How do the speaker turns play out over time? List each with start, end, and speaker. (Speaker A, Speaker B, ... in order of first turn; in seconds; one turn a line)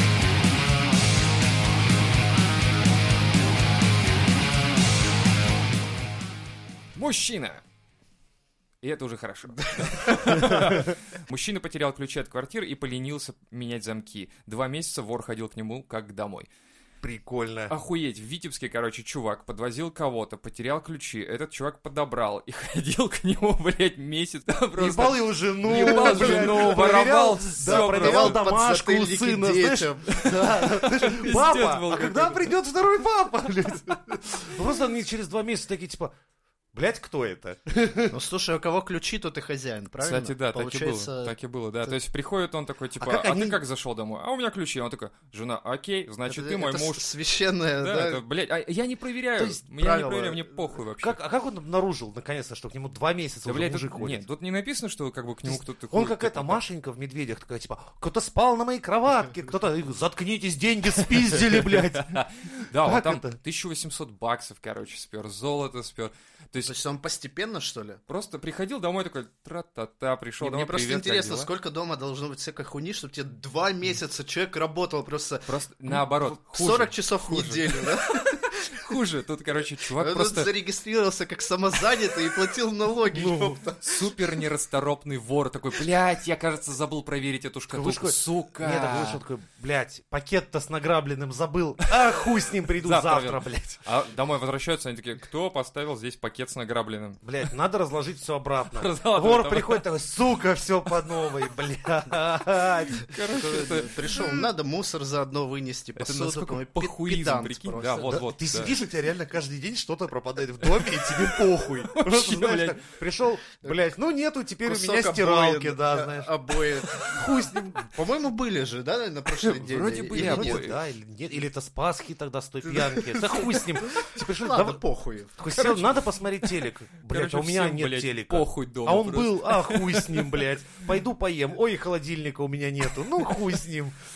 Speaker A: 7.0-7.6
Speaker A: 8.8-16.5
Speaker B: 10.2-10.7
Speaker B: 17.0-17.7
Speaker A: 17.7-28.4
Speaker B: 24.8-36.1
Speaker C: 25.7-26.9
Speaker C: 27.6-30.6
Speaker A: 30.1-32.5
Speaker B: 36.7-38.1
Speaker C: 38.1-41.9
Speaker A: 40.0-47.1
Speaker B: 43.0-43.6
Speaker C: 46.2-48.2
Speaker A: 47.8-51.2
Speaker C: 49.6-50.5
Speaker B: 51.0-54.2
Speaker A: 53.4-56.6
Speaker B: 55.4-62.2
Speaker A: 61.5-66.8
Speaker B: 62.7-63.4
Speaker C: 66.6-68.0
Speaker A: 68.1-71.5
Speaker C: 70.4-78.8
Speaker A: 75.5-78.0
Speaker A: 78.7-80.5
Speaker C: 80.0-84.0
Speaker B: 83.1-83.6
Speaker A: 83.8-89.2
Speaker B: 87.7-93.8
Speaker A: 92.8-97.2
Speaker B: 97.2-103.0
Speaker A: 98.7-99.8
Speaker A: 102.9-104.4
Speaker C: 103.2-108.0
Speaker A: 106.0-108.8
Speaker B: 108.1-116.3
Speaker A: 110.7-112.9
Speaker C: 114.6-120.7
Speaker B: 117.0-117.8
Speaker A: 119.4-120.8
Speaker B: 120.1-124.8
Speaker C: 122.7-125.4
Speaker B: 125.4-133.9
Speaker A: 125.5-126.5
Speaker A: 127.1-130.4